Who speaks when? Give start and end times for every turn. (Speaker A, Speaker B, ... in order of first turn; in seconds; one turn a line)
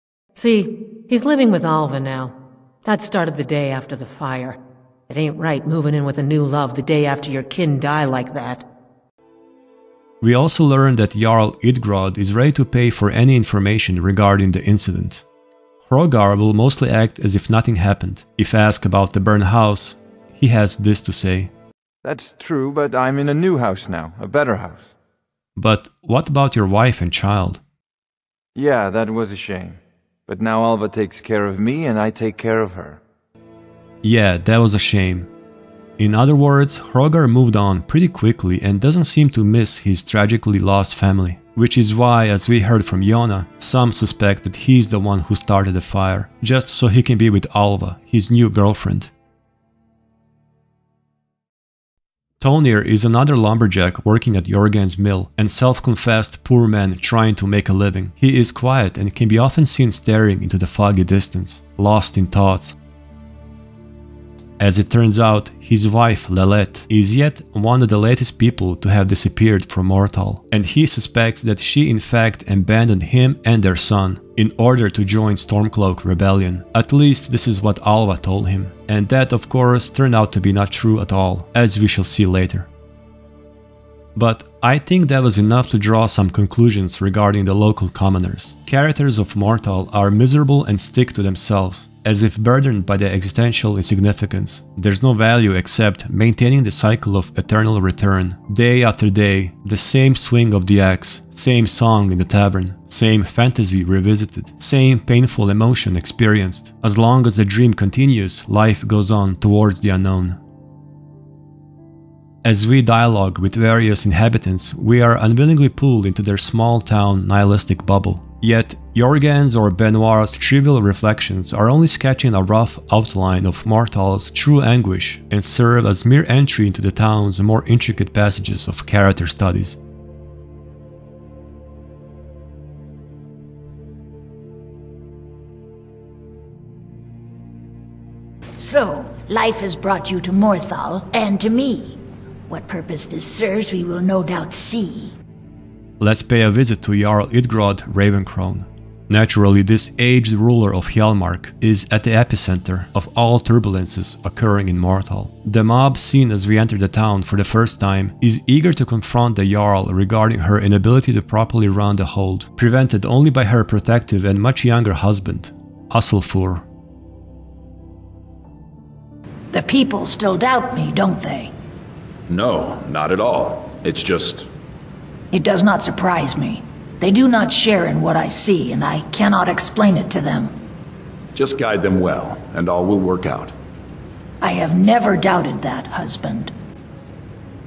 Speaker A: 0.3-8.7
Speaker B: 10.2-15.2
Speaker B: 15.8-21.5
Speaker C: 22.0-24.9
Speaker B: 25.6-27.6
Speaker C: 28.6-33.0
Speaker B: 34.0-35.3
Speaker B: 36.0-49.1
Speaker B: 52.4-62.8
Speaker B: 64.6-82.7
Speaker B: 84.2-110.4
Speaker B: 112.4-129.8
Speaker D: 138.6-145.2
Speaker B: 146.0-166.6
Speaker D: 169.5-171.5
Speaker E: 172.3-174.5
Speaker D: 175.3-180.6
Speaker E: 181.3-183.5
Speaker D: 184.4-186.5